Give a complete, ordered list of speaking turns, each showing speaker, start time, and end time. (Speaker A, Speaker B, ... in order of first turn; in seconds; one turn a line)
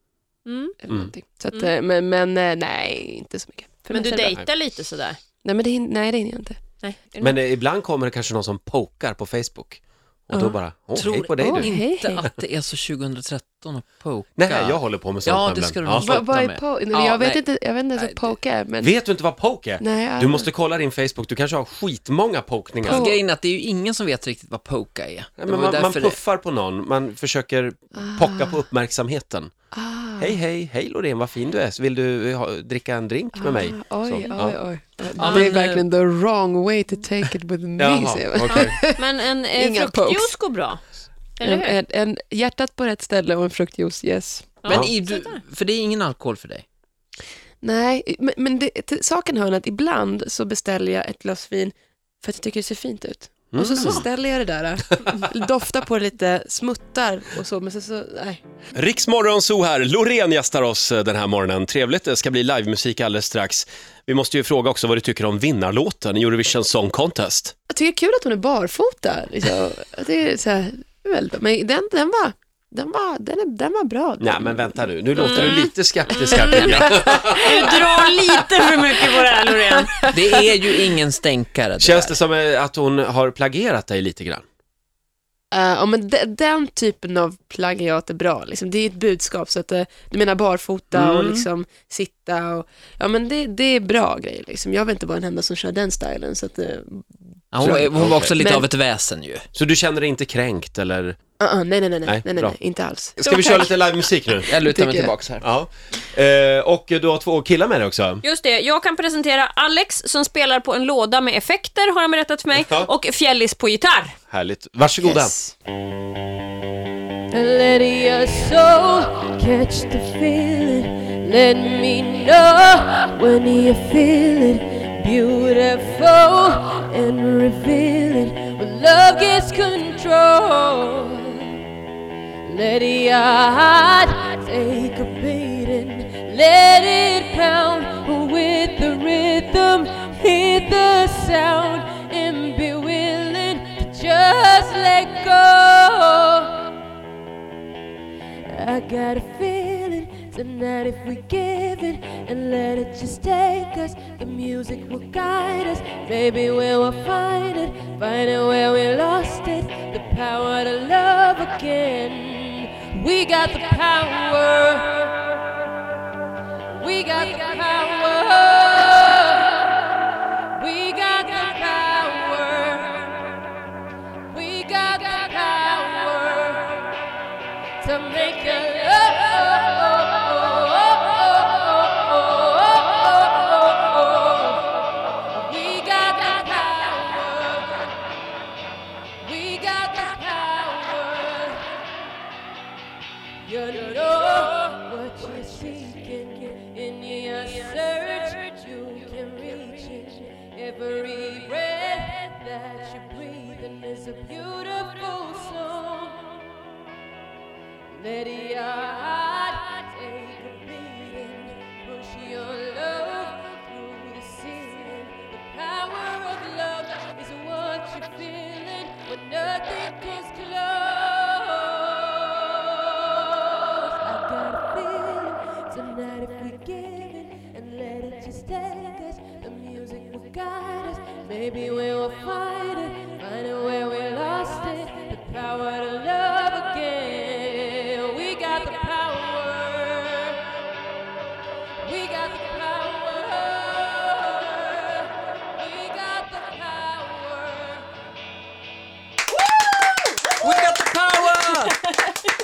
Speaker A: 0.5-0.8
Speaker B: 0.8-4.4
Speaker A: 3.9-5.2
Speaker B: 5.4-6.6
Speaker A: 6.8-7.4
Speaker C: 7.2-11.7
Speaker A: 11.0-11.2
Speaker D: 11.0-17.4
Speaker B: 11.4-12.2
Speaker C: 14.4-16.1
Speaker B: 16.0-18.9
Speaker D: 17.9-18.4
Speaker C: 18.8-23.1
Speaker B: 19.8-20.5
Speaker D: 22.8-26.2
Speaker B: 22.9-23.1
Speaker C: 25.4-29.5
Speaker B: 28.0-28.6
Speaker B: 29.7-30.4
Speaker C: 30.2-34.6
Speaker B: 33.4-40.4
Speaker D: 35.2-35.8
Speaker C: 35.2-35.5
Speaker C: 37.8-38.8
Speaker A: 38.6-40.8
Speaker A: 41.4-41.8
Speaker B: 41.4-44.6
Speaker A: 44.6-45.4
Speaker D: 44.7-46.6
Speaker B: 47.6-58.4
Speaker C: 53.5-54.0
Speaker C: 58.8-67.5
Speaker B: 67.7-75.6
Speaker C: 74.2-78.1
Speaker A: 75.2-80.2
Speaker B: 76.3-77.4
Speaker B: 79.2-80.3
Speaker D: 80.1-82.2
Speaker C: 81.8-84.4
Speaker B: 85.5-98.7
Speaker C: 90.9-91.5
Speaker D: 97.5-99.5
Speaker C: 97.6-98.3
Speaker C: 99.5-101.2
Speaker B: 101.4-103.7
Speaker C: 102.1-102.6
Speaker C: 103.2-104.5
Speaker A: 103.3-103.6
Speaker D: 104.5-105.5
Speaker B: 104.5-105.1
Speaker C: 105.4-108.2
Speaker A: 108.2-114.2
Speaker C: 112.5-112.9
Speaker C: 114.3-115.3
Speaker B: 115.0-115.5
Speaker E: 119.4-120.2
Speaker E: 121.5-122.2
Speaker E: 123.2-124.1
Speaker E: 125.9-126.7
Speaker E: 128.6-131.6
Speaker E: 132.6-133.3
Speaker E: 133.9-145.7
Speaker E: 148.5-165.4
Speaker E: 166.8-169.6
Speaker E: 170.6-173.2
Speaker E: 174.3-176.9
Speaker E: 177.8-184.7
Speaker E: 185.4-187.8
Speaker E: 189.3-190.3
Speaker E: 191.0-191.6
Speaker E: 193.5-206.5
Speaker E: 208.0-240.4
Speaker E: 241.8-245.0
Speaker E: 245.7-247.8
Speaker C: 250.4-251.7
Speaker D: 250.6-251.0
Speaker A: 251.4-252.1